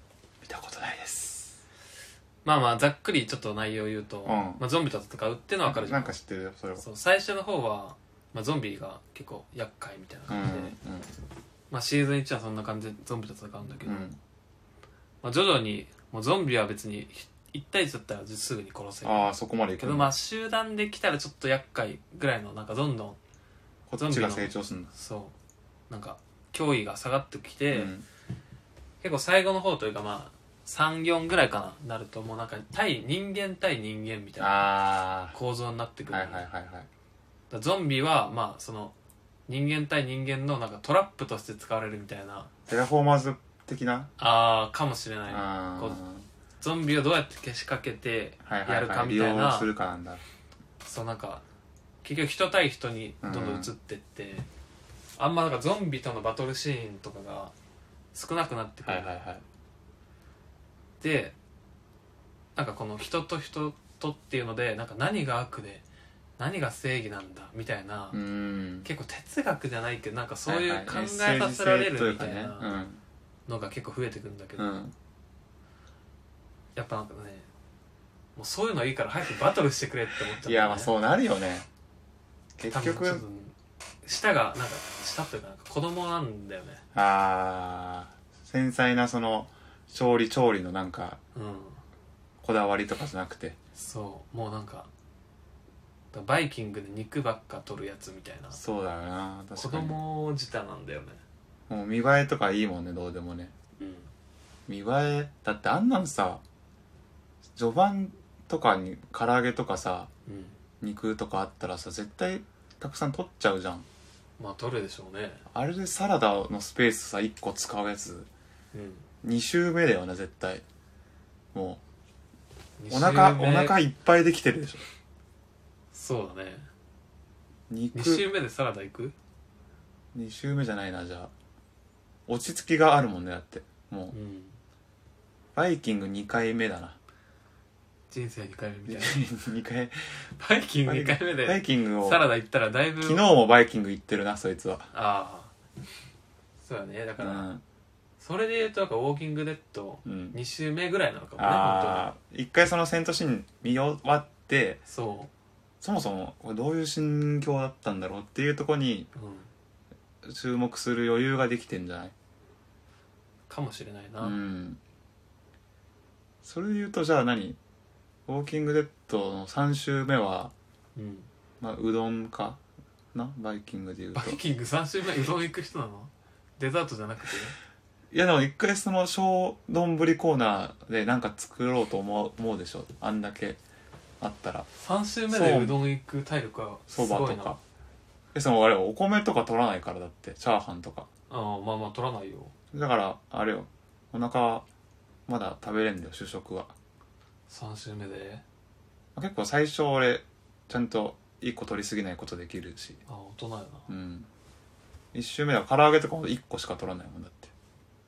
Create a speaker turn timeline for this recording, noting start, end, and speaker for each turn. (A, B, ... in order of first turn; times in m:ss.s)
0:00.4-0:01.6 A
0:02.4-0:06.1 B
0:04.2-0:04.6 A
0:05.6-0:06.8 A
0:06.8-0:10.7 B
0:10.3-0:11.1 A
0:11.7-0:14.1 B
0:13.8-0:14.2 A
0:15.2-0:19.3 B
0:19.0-0:20.1 A
0:19.8-0:23.2 B
0:23.9-0:24.9 A
0:24.0-0:25.3 B
0:25.9-0:27.9 B
0:27.7-0:28.0 A
0:29.0-0:34.7 B
0:34.4-0:35.4 A
0:35.3-0:36.4 B
0:36.1-0:36.9 A
0:37.5-0:38.9 B
0:39.5-0:42.5 B
0:42.7-0:44.1 A
0:44.2-0:46.0 B
0:45.3-0:46.2 A
0:46.6-0:49.7 B
0:48.4-0:50.2 A
0:50.8-0:51.4 B
0:52.0-0:54.5 B
0:53.2-0:53.7 A
0:55.2-0:57.5 B
0:58.1-0:59.1 B
0:58.8-0:59.4 A
1:01.0-1:01.3 B
1:02.5-1:05.8 B
1:06.4-1:08.2 B
1:08.1-1:08.9 A
1:08.8-1:12.8 B
1:10.4-1:13.0 A
1:13.5-1:14.7 B
1:14.6-1:14.9 A
1:16.7-1:17.5 B
1:18.4-1:20.9 B
1:20.4-1:21.7 A
1:22.6-1:23.2 A
1:22.7-1:26.8 B
1:26.9-1:31.2 A
1:31.3-1:31.8 B
1:32.4-1:33.6 A
1:33.7-1:34.9 B
1:36.1-1:38.6 B
1:38.5-1:40.0 A
1:39.6-1:41.2 B
1:41.7-1:43.5 A
1:43.8-1:44.1 B
1:44.7-1:46.4 A
1:47.6-1:50.1 A
1:50.2-1:50.6 B
1:50.8-1:53.8 A
1:54.4-1:55.4 B
1:55.5-1:58.3 A
1:58.7-1:59.0 B
1:59.2-2:00.6 A
2:01.5-2:01.8 A
2:02.8-2:03.8 B
2:02.9-2:04.8 A
2:05.9-2:06.7 B
2:07.7-2:08.2 A
2:07.9-2:09.1 B
2:10.1-2:11.3 A
2:12.3-2:14.1 A
2:14.1-2:14.6 B
2:15.6-2:17.0 A
2:18.1-2:19.2 B
2:18.9-2:20.0 A
2:20.4-2:23.2 B
2:20.8-2:22.2 A
2:23.0-2:24.9 A
2:24.9-2:25.5 B
2:26.6-2:27.5 B
2:27.2-2:27.6 A
2:28.2-2:32.1 B
2:30.0-2:30.4 A
2:31.4-2:34.8 A
2:34.9-2:35.3 B
2:35.8-2:39.1 A
2:39.1-2:39.5 B
2:40.2-2:42.1 A
2:43.5-2:44.4 B
2:44.2-2:44.8 A
2:46.4-2:47.6 A
2:48.3-2:50.5 A
2:50.9-2:51.3 B
2:51.6-2:52.6 A
2:53.1-2:54.4 A
2:54.1-2:57.6 B
2:58.1-3:03.6 A
3:04.2-3:04.7 A
3:04.7-3:07.6 B
3:05.3-3:05.8 A
3:06.9-3:07.6 A
3:08.3-3:11.1 A
3:11.3-3:12.5 B
3:12.7-3:14.6 A
3:15.3-3:16.7 A
3:17.5-3:18.4 B
3:19.1-3:23.0 A
3:23.1-3:23.9 B
3:23.9-3:24.3 A
3:25.1-3:27.5 A